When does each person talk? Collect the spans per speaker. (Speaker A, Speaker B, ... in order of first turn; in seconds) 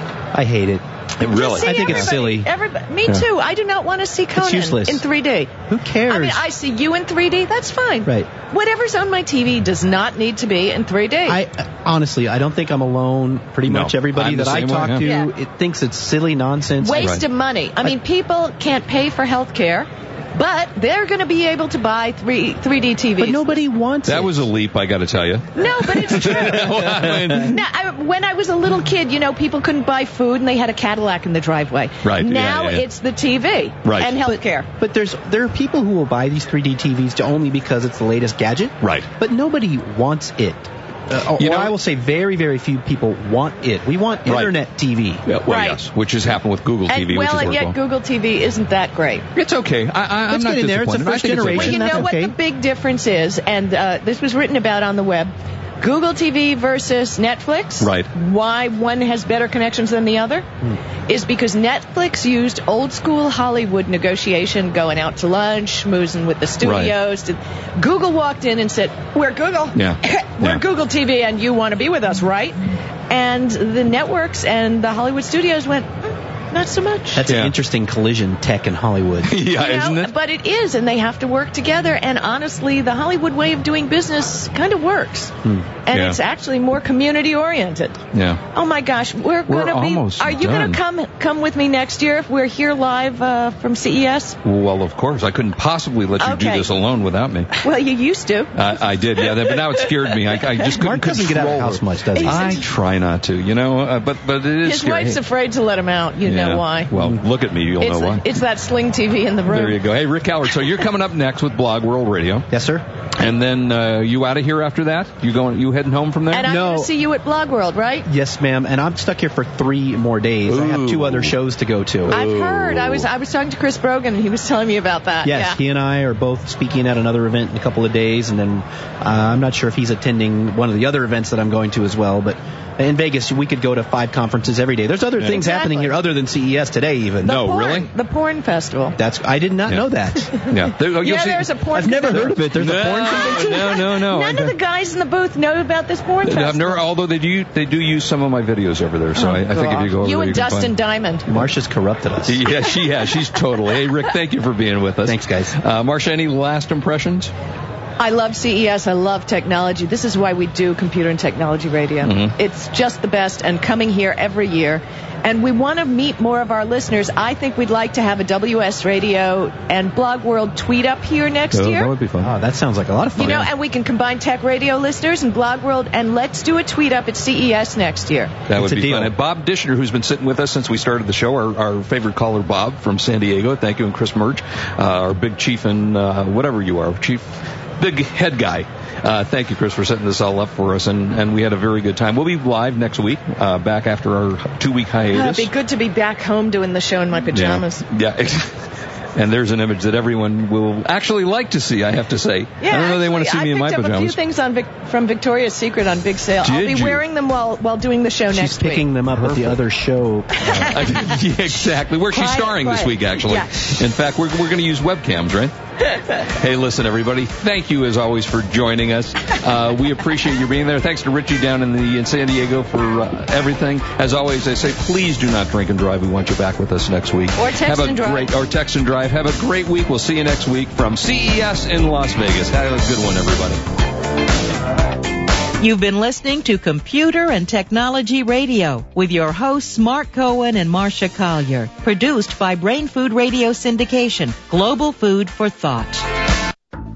Speaker A: 0.3-2.5, 4.3-5.0, 5.7-6.4, 8.1-8.3, 11.2-17.2, 23.2-24.5, 26.2-27.4, 34.3-45.2, 50.3-52.4, 77.1-79.5, 100.8-102.6, 112.5-112.8, 116.4-116.9, 118.1-122.2, 125.2-137.4, 139.0-140.5, 141.7-143.6, 151.3-152.4, 155.1-155.6, 172.2-173.5, 178.5-179.1, 208.3-210.7
Speaker B: 1.2-2.1, 13.7-15.1, 17.0-17.2, 24.1-27.6, 32.0-32.9, 33.8-34.1, 38.8-39.1, 41.4-41.8, 44.3-44.5, 45.3-47.8, 49.4-52.1, 57.8-58.1, 66.6-67.0, 69.7-70.6, 79.3-80.1, 85.9-86.2, 88.1-88.4, 89.5-90.8, 94.4-97.7, 98.5-105.2, 106.2-108.2, 109.5-112.5, 113.2-116.6, 120.5-121.4, 122.1-123.1, 137.2-137.9, 139.7-144.6, 146.2-150.8, 152.3-157.3, 162.0-162.3, 171.5-172.3, 178.5-195.5, 197.3-198.6, 199.2-204.2, 206.4-207.0, 209.2-209.6, 210.5-215.5, 216.1-233.6
Speaker C: 1.3-11.4, 15.0-15.3, 16.8-23.5, 25.6-34.7, 45.5-45.8, 46.9-49.3, 51.5-60.5, 61.1-77.2, 79.5-85.3, 85.9-88.0, 88.5-94.4, 96.2-96.7, 97.6-98.5, 102.2-102.7, 104.6-106.9, 107.8-109.8, 116.3-118.1, 122.1-125.6, 135.3-135.9, 137.2-139.0, 141.0-146.8, 149.2-151.3, 158.0-171.9, 173.2-178.3, 195.1-197.8, 202.6-208.9, 212.1-213.7, 227.4-228.3
Speaker D: 235.6-246.1